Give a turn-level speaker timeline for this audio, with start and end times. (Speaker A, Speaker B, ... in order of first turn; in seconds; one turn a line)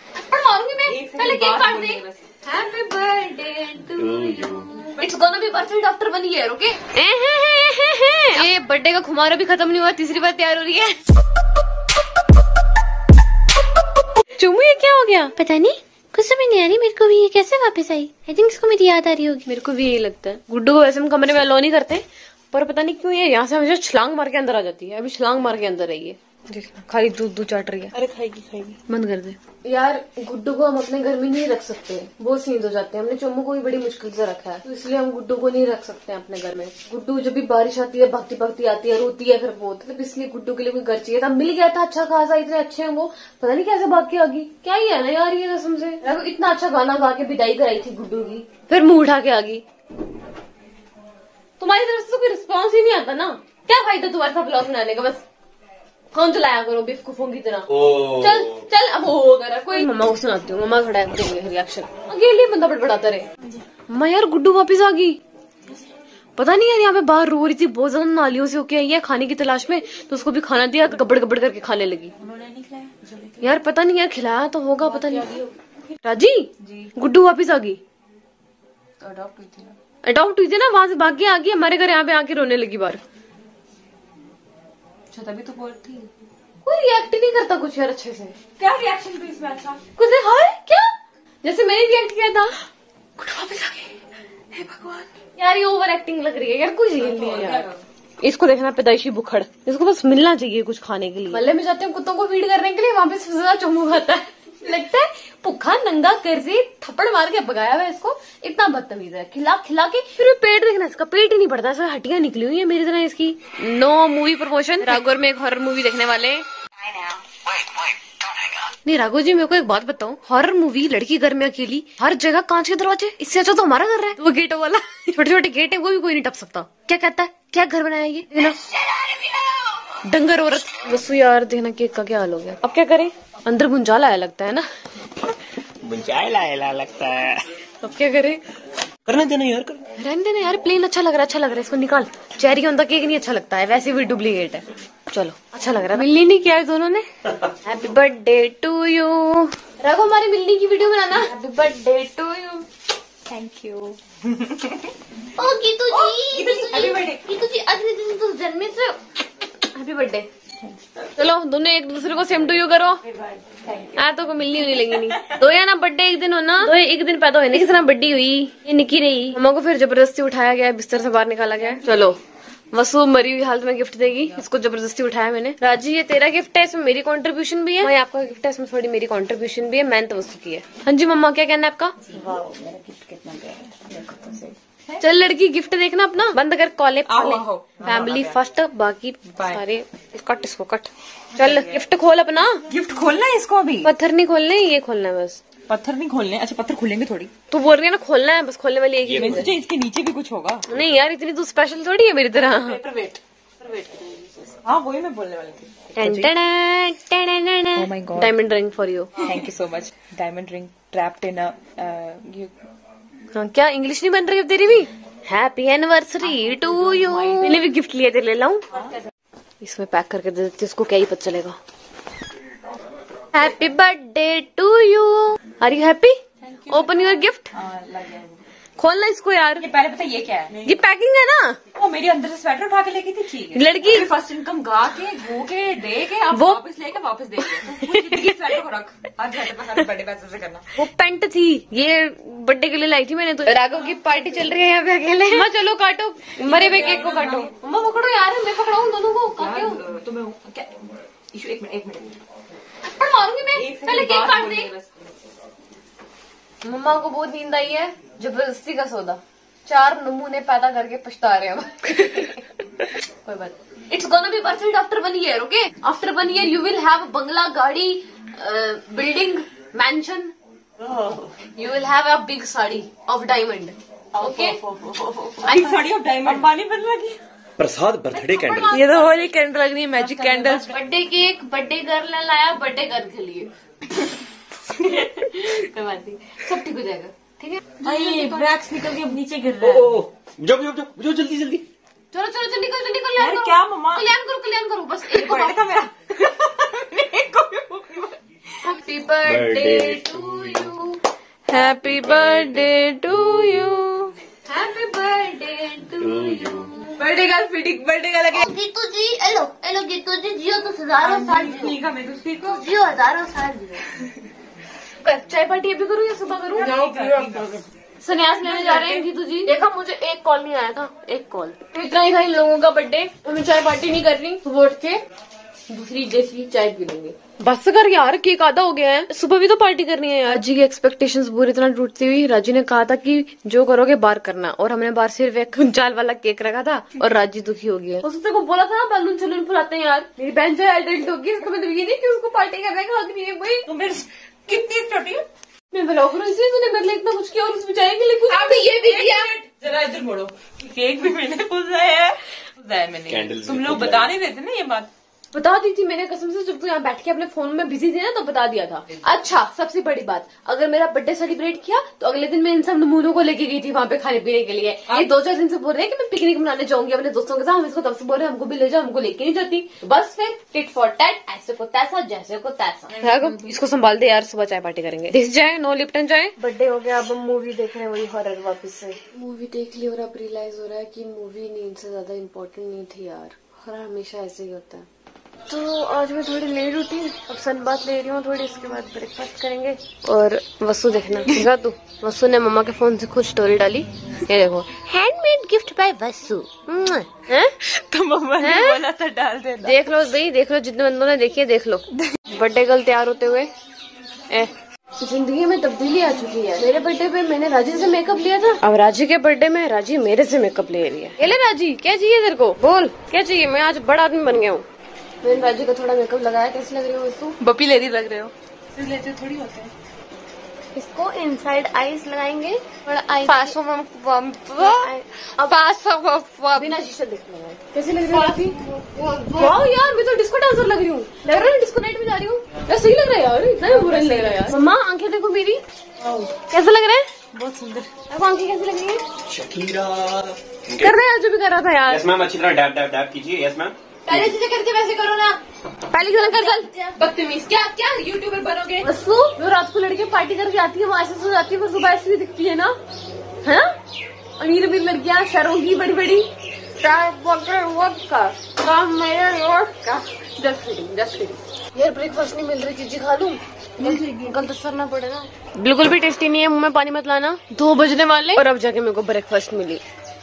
Speaker A: 0.3-3.3
Speaker B: 0.9-4.9
Speaker C: 4.0-4.8
Speaker A: 4.0-11.0
Speaker A: 14.4-28.0
Speaker B: 27.9-28.8
Speaker A: 28.9-49.6
Speaker A: 51.6-55.2
Speaker A: 56.1-63.3
Speaker A: 63.9-65.2
Speaker A: 66.4-72.1
Speaker B: 72.2-73.6
Speaker A: 73.4-75.4
Speaker B: 74.9-75.6
Speaker A: 76.0-77.8
Speaker B: 76.6-76.9
Speaker B: 79.0-79.8
Speaker A: 80.0-83.0
Speaker B: 85.1-86.1
Speaker A: 86.7-88.4
Speaker B: 88.6-89.8
Speaker A: 90.0-92.5
Speaker B: 93.2-93.9
Speaker B: 94.5-95.1
Speaker A: 95.4-97.7
Speaker B: 97.0-97.8
Speaker A: 98.2-116.5
Speaker A: 118.8-128.6
Speaker A: 130.0-134.6
Speaker C: 135.8-137.5
Speaker A: 137.8-138.4
Speaker C: 139.1-139.8
Speaker A: 140.0-147.1
Speaker A: 147.6-152.7
Speaker B: 153.3-154.9
Speaker D: 155.4-159.0
Speaker B: 155.9-157.3
Speaker A: 159.6-160.3
Speaker B: 160.6-161.0
Speaker A: 161.2-163.0
Speaker B: 163.0-165.4
Speaker A: 164.0-172.2
Speaker A: 172.7-181.9
Speaker B: 182.0-185.0
Speaker A: 185.0-192.6
Speaker B: 187.1-188.4
Speaker B: 189.3-189.6
Speaker B: 191.4-191.8
Speaker B: 192.7-193.9
Speaker A: 193.8-195.4
Speaker B: 195.7-197.3
Speaker A: 197.5-199.5
Speaker C: 199.0-199.5
Speaker B: 199.1-200.7
Speaker A: 200.7-202.8
Speaker B: 202.5-206.3
Speaker A: 206.0-209.2
Speaker B: 207.8-208.4
Speaker B: 209.2-212.5
Speaker A: 213.3-218.7
Speaker B: 216.2-217.7
Speaker D: 216.8-217.3
Speaker B: 218.7-219.0
Speaker A: 219.6-221.6
Speaker A: 223.3-226.2
Speaker B: 226.4-228.5
Speaker A: 226.7-227.5
Speaker A: 228.8-229.7
Speaker B: 229.6-230.8
Speaker A: 230.6-231.6
Speaker B: 231.7-240.7
Speaker A: 233.5-234.1
Speaker A: 236.3-236.6
Speaker A: 237.7-238.3
Speaker A: 240.8-249.8
Speaker B: 243.7-244.5
Speaker B: 246.4-247.5
Speaker B: 249.4-252.2
Speaker A: 252.9-254.7
Speaker B: 253.5-255.0
Speaker A: 256.6-270.3
Speaker B: 270.8-271.3
Speaker A: 271.6-274.6
Speaker B: 274.2-277.2
Speaker A: 275.4-276.5
Speaker C: 277.6-278.8
Speaker B: 278.1-280.8
Speaker A: 278.3-283.5
Speaker A: 284.7-288.4
Speaker B: 287.8-290.0
Speaker C: 289.6-291.7
Speaker A: 292.1-295.6
Speaker B: 293.2-294.1
Speaker B: 295.1-298.2
Speaker A: 298.6-301.0
Speaker C: 299.2-300.7
Speaker A: 301.5-304.1
Speaker C: 301.9-302.7
Speaker B: 304.5-305.9
Speaker C: 306.0-306.7
Speaker A: 306.1-306.4
Speaker B: 306.8-308.4
Speaker D: 308.3-311.8
Speaker B: 311.0-312.8
Speaker D: 312.4-313.8
Speaker A: 315.0-316.7
Speaker B: 316.6-317.6
Speaker A: 318.0-325.0
Speaker B: 318.4-319.1
Speaker A: 325.7-343.7
Speaker B: 343.7-345.2
Speaker A: 345.7-349.3
Speaker B: 348.3-354.9
Speaker C: 353.1-354.1
Speaker A: 355.3-384.9
Speaker B: 372.9-373.5
Speaker A: 385.5-394.9
Speaker D: 394.9-396.9
Speaker A: 396.5-397.6
Speaker B: 397.7-399.8
Speaker A: 398.4-398.8
Speaker A: 399.6-403.5
Speaker A: 404.3-414.6
Speaker A: 415.2-417.4
Speaker B: 417.4-419.7
Speaker A: 420.8-428.6
Speaker D: 428.9-429.6
Speaker A: 429.4-435.6
Speaker B: 433.6-434.5
Speaker A: 436.3-437.1
Speaker B: 437.3-437.9
Speaker A: 438.1-439.0
Speaker C: 439.2-441.0
Speaker A: 440.8-442.0
Speaker C: 441.9-444.4
Speaker B: 444.1-445.4
Speaker A: 445.9-446.8
Speaker B: 446.1-448.9
Speaker A: 448.8-452.8
Speaker A: 454.4-456.3
Speaker A: 456.8-469.8
Speaker B: 463.8-464.3